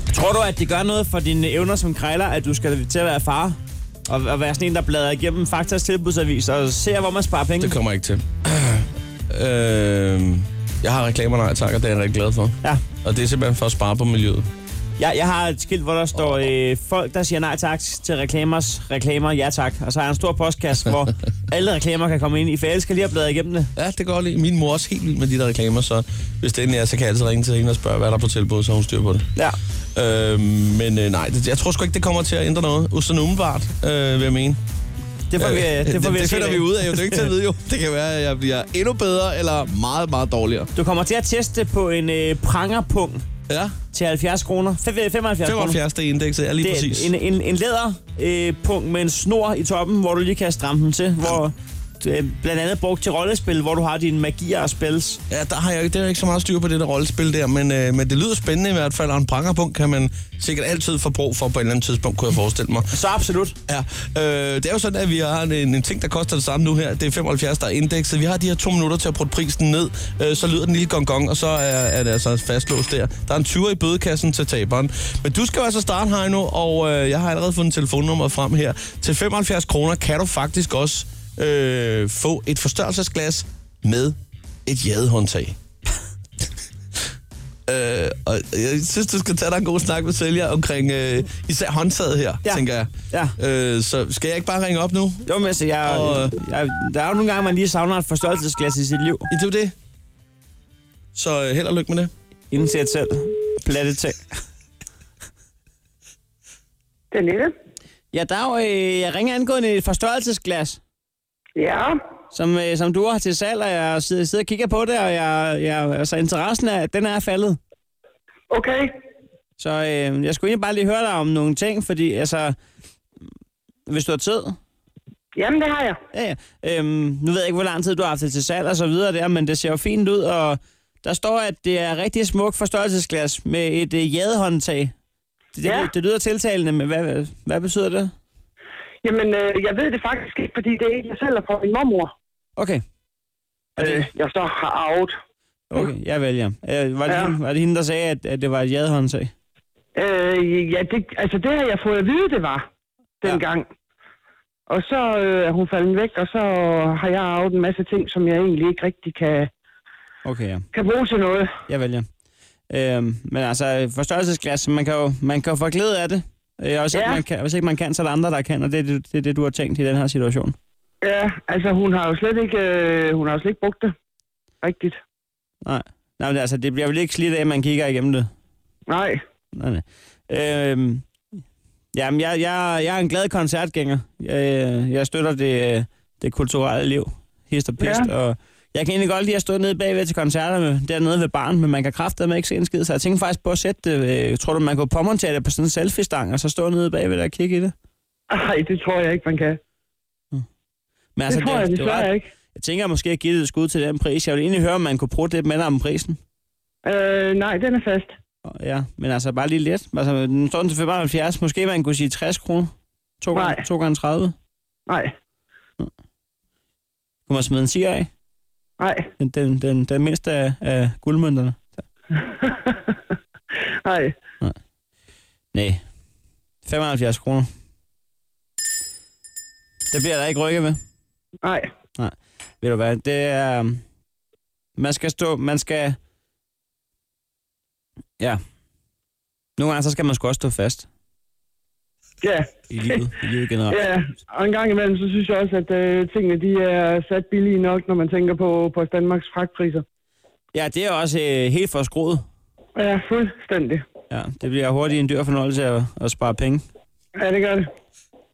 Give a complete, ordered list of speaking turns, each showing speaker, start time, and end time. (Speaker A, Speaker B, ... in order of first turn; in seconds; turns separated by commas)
Speaker A: 0.1-7.8, Speaker B: 7.6-14.5, Speaker A: 15.0-23.7, Speaker B: 23.8-29.3, Speaker B: 29.9-34.6, Speaker A: 35.3-37.3, Speaker B: 35.4-40.7, Speaker A: 40.8-43.2, Speaker B: 43.5-43.8, Speaker A: 43.9-45.8, Speaker B: 45.4-47.1, Speaker A: 46.6-55.2, Speaker B: 55.3-62.9, Speaker A: 62.9-63.6, Speaker B: 63.7-85.6, Speaker B: 87.7-95.3, Speaker A: 92.5-93.3, Speaker A: 95.3-99.3, Speaker B: 95.8-96.4, Speaker B: 99.3-99.8, Speaker B: 101.2-102.1, Speaker A: 102.5-104.3, Speaker C: 107.1-107.5, Speaker A: 108.1-110.8, Speaker C: 111.6-112.0, Speaker A: 112.3-117.6, Speaker C: 118.5-118.9, Speaker A: 119.6-122.6, Speaker A: 123.9-124.6, Speaker C: 125.3-126.0, Speaker A: 126.1-134.9, Speaker A: 135.5-138.1, Speaker C: 135.6-135.9, Speaker C: 139.0-142.1, Speaker A: 142.6-142.8, Speaker A: 143.8-144.1, Speaker C: 143.8-145.2, Speaker A: 145.7-149.3, Speaker C: 147.1-147.3, Speaker C: 149.9-152.7, Speaker C: 153.2-153.7, Speaker C: 154.7-159.5, Speaker A: 160.2-160.7, Speaker C: 160.7-161.5, Speaker A: 161.7-162.1, Speaker A: 162.7-170.6, Speaker C: 166.9-167.2, Speaker C: 171.0-173.9, Speaker C: 174.6-175.0, Speaker A: 175.7-178.3, Speaker C: 178.9-179.2, Speaker A: 179.6-181.1, Speaker A: 181.9-197.7, Speaker C: 187.8-188.1, Speaker C: 198.3-199.6, Speaker A: 201.2-206.2, Speaker C: 201.3-202.3, Speaker C: 206.8-208.1, Speaker A: 208.5-214.3, Speaker C: 213.3-213.6, Speaker C: 214.9-215.1, Speaker A: 217.3-218.1, Speaker C: 218.8-219.1, Speaker A: 219.2-221.7, Speaker C: 222.2-223.0, Speaker C: 223.8-224.2, Speaker A: 225.5-225.8, Speaker A: 226.7-227.5, Speaker A: 229.9-230.8, Speaker C: 231.4-231.7, Speaker A: 232.0-233.8, Speaker A: 234.8-236.0, Speaker A: 239.6-240.9, Speaker C: 242.2-243.1, Speaker A: 242.7-243.8, Speaker C: 243.7-249.8, Speaker A: 250.5-252.2, Speaker C: 252.8-253.8, Speaker A: 254.1-256.6, Speaker C: 257.2-257.7